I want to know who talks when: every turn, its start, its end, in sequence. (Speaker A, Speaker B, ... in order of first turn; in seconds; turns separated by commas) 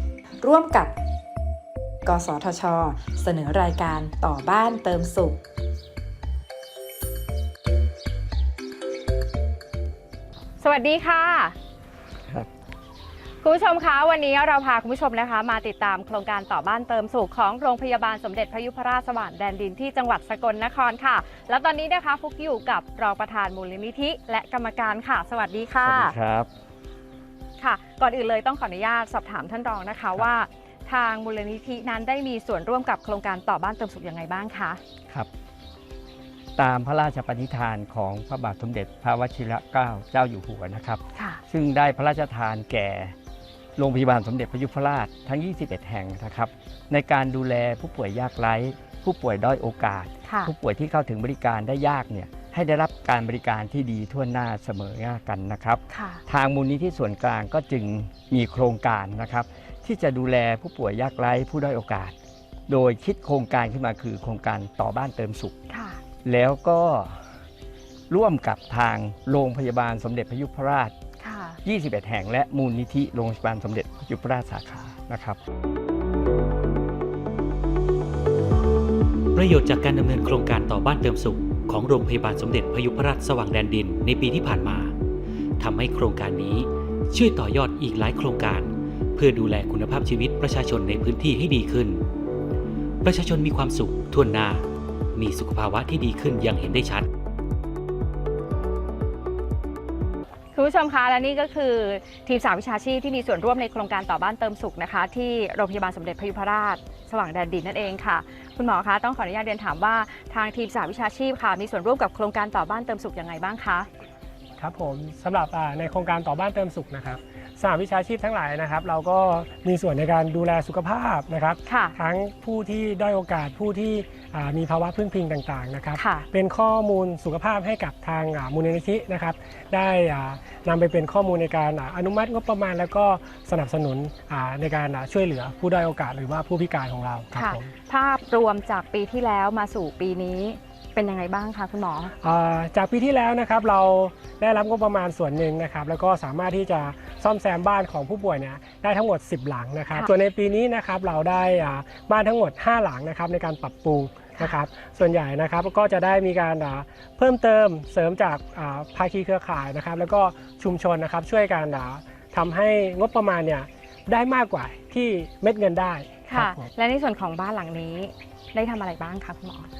Speaker A: 0.4-0.9, Speaker A: 2.0-5.4, Speaker B: 10.6-11.5, Speaker B: 13.4-26.1, Speaker C: 25.8-26.5, Speaker B: 27.6-34.8, Speaker C: 36.6-43.1, Speaker B: 41.1-41.4, Speaker C: 43.8-62.1, Speaker B: 50.2-50.5, Speaker B: 55.9-56.2, Speaker C: 62.7-65.5, Speaker B: 65.7-66.0, Speaker C: 66.2-67.2, Speaker C: 68.1-70.9, Speaker B: 71.2-71.6, Speaker C: 71.6-75.4, Speaker D: 79.3-84.9, Speaker D: 85.6-92.0, Speaker D: 93.0-97.1, Speaker B: 100.5-113.9, Speaker E: 114.6-137.7, Speaker B: 121.7-121.9, Speaker B: 125.9-126.2, Speaker B: 137.3-142.1, Speaker E: 142.2-166.7, Speaker B: 166.2-169.7